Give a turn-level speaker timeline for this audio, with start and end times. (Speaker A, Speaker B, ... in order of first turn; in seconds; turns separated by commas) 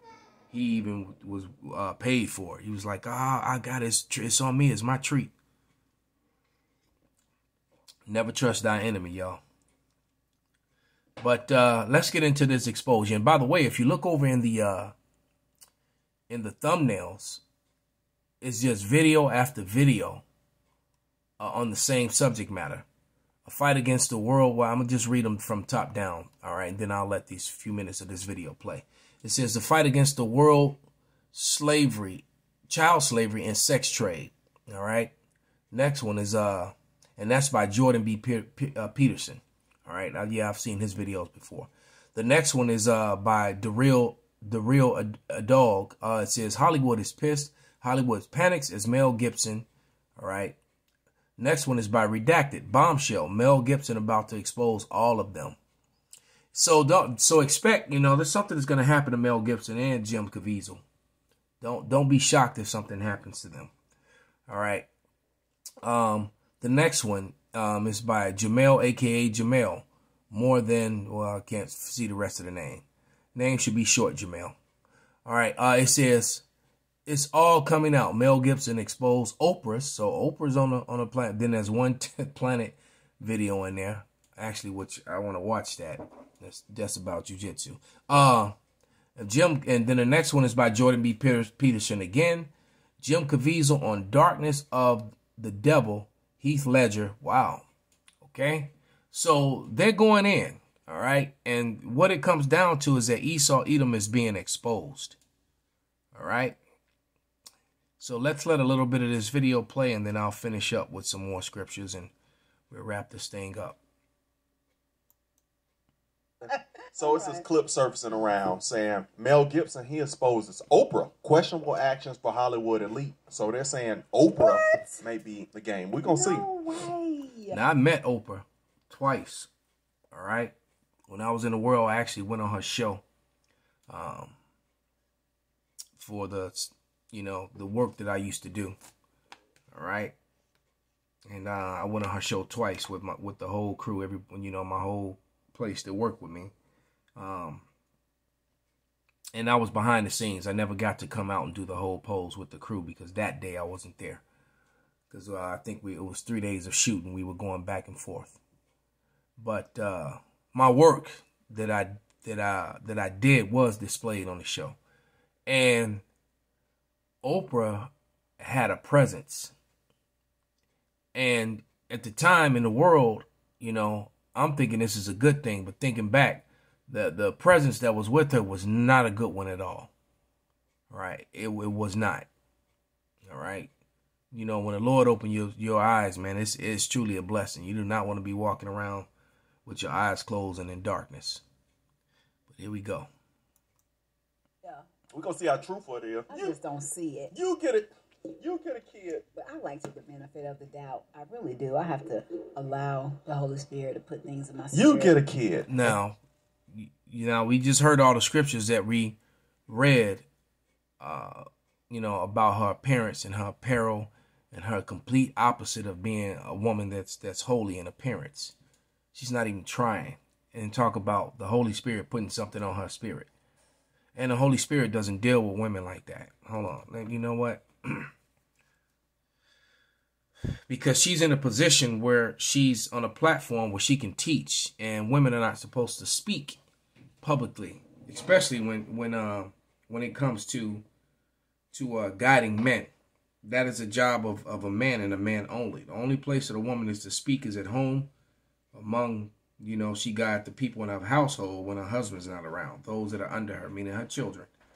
Speaker A: 0.5-5.3, Speaker A: 8.1-9.4, Speaker A: 11.2-14.9, Speaker A: 16.3-17.4, Speaker A: 18.4-20.2, Speaker A: 21.4-22.9, Speaker A: 23.4-30.8, Speaker A: 31.3-35.1, Speaker A: 35.7-50.6, Speaker A: 51.4-55.6, Speaker A: 56.5-60.8, Speaker A: 61.6-63.7, Speaker A: 64.5-64.9, Speaker A: 65.8-74.5, Speaker A: 75.2-76.4, Speaker A: 77.0-88.5, Speaker A: 89.2-97.7, Speaker A: 98.2-105.2, Speaker A: 106.1-106.6, Speaker A: 108.0-112.1, Speaker A: 112.7-113.8, Speaker B: 116.4-126.5, Speaker C: 116.4-117.4, Speaker C: 124.4-125.0, Speaker C: 126.1-127.6, Speaker A: 127.5-129.5, Speaker A: 130.1-130.5, Speaker A: 131.1-133.0, Speaker A: 133.9-134.4, Speaker A: 136.0-138.8, Speaker A: 139.7-140.2, Speaker A: 141.3-146.5, Speaker A: 147.2-147.7, Speaker A: 149.3-154.2, Speaker A: 155.1-158.4, Speaker A: 159.4-164.8, Speaker A: 165.5-166.0, Speaker A: 167.2-169.5, Speaker A: 171.1-179.9, Speaker A: 180.9-182.3, Speaker A: 183.2-183.7, Speaker A: 184.3-189.1, Speaker A: 189.7-191.4, Speaker A: 192.5-193.1, Speaker B: 195.1-196.6, Speaker C: 196.3-197.3, Speaker B: 197.3-199.2, Speaker C: 199.3-205.2, Speaker B: 204.7-205.9, Speaker A: 205.7-206.2, Speaker A: 206.7-209.2, Speaker A: 209.7-210.3, Speaker A: 211.0-218.5, Speaker A: 219.1-223.3, Speaker A: 224.1-228.1, Speaker A: 230.7-236.6, Speaker A: 237.2-240.8, Speaker A: 241.7-242.9, Speaker A: 243.4-248.1, Speaker A: 248.7-254.5